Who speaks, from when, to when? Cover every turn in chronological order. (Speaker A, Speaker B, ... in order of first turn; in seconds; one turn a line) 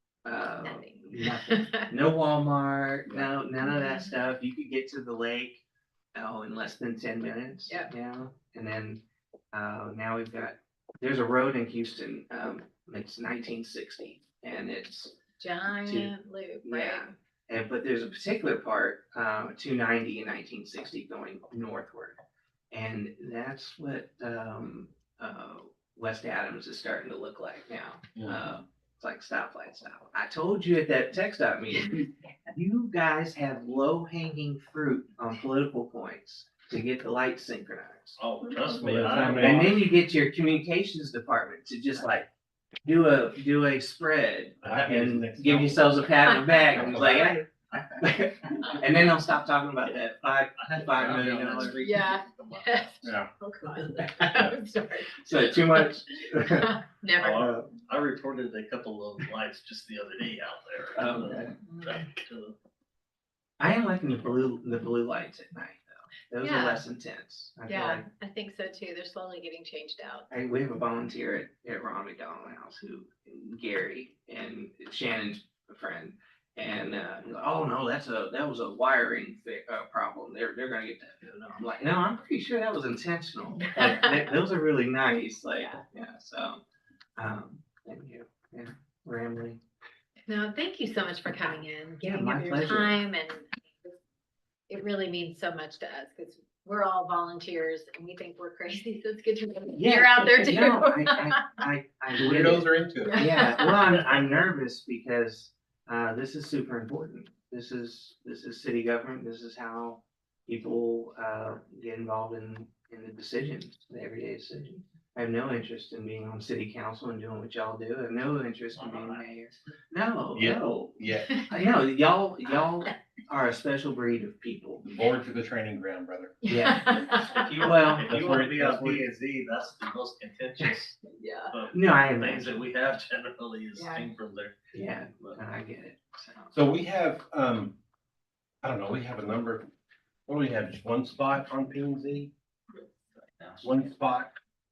Speaker A: 0.2-5.6
Speaker B: 0.6-1.9
Speaker B: 3.6-4.2
Speaker A: 6.1-15.1
Speaker B: 15.4-17.1
Speaker A: 15.8-22.2
Speaker A: 22.7-38.2
Speaker C: 28.1-28.5
Speaker D: 38.2-39.8
Speaker C: 38.8-39.8
Speaker A: 39.2-42.3
Speaker A: 42.8-47.5
Speaker C: 44.6-46.1
Speaker C: 46.7-47.3
Speaker D: 46.7-47.9
Speaker A: 48.0-51.8
Speaker D: 50.6-52.9
Speaker B: 51.7-57.5
Speaker C: 53.0-53.3
Speaker A: 54.2-54.4
Speaker C: 54.3-54.5
Speaker A: 55.2-56.7
Speaker D: 57.1-62.5
Speaker A: 57.4-57.7
Speaker A: 61.0-61.5
Speaker B: 61.6-62.0
Speaker A: 63.6-68.1
Speaker B: 66.4-66.8
Speaker B: 67.7-70.3
Speaker A: 70.3-86.6
Speaker B: 83.7-84.2
Speaker A: 87.2-89.6
Speaker B: 90.3-94.0
Speaker A: 92.0-93.0
Speaker B: 94.7-101.5
Speaker A: 99.7-124.8
Speaker C: 102.2-103.2
Speaker B: 103.0-103.8
Speaker D: 118.7-119.2
Speaker C: 120.3-121.5
Speaker C: 124.8-126.4
Speaker B: 126.4-127.5
Speaker A: 126.5-128.4
Speaker D: 127.0-134.5
Speaker C: 128.1-129.1
Speaker B: 131.1-131.5
Speaker A: 131.7-132.7
Speaker B: 133.7-134.1
Speaker A: 134.7-136.5
Speaker C: 136.5-137.8
Speaker C: 138.6-139.7
Speaker C: 140.3-142.3
Speaker D: 143.4-143.8
Speaker C: 143.6-144.4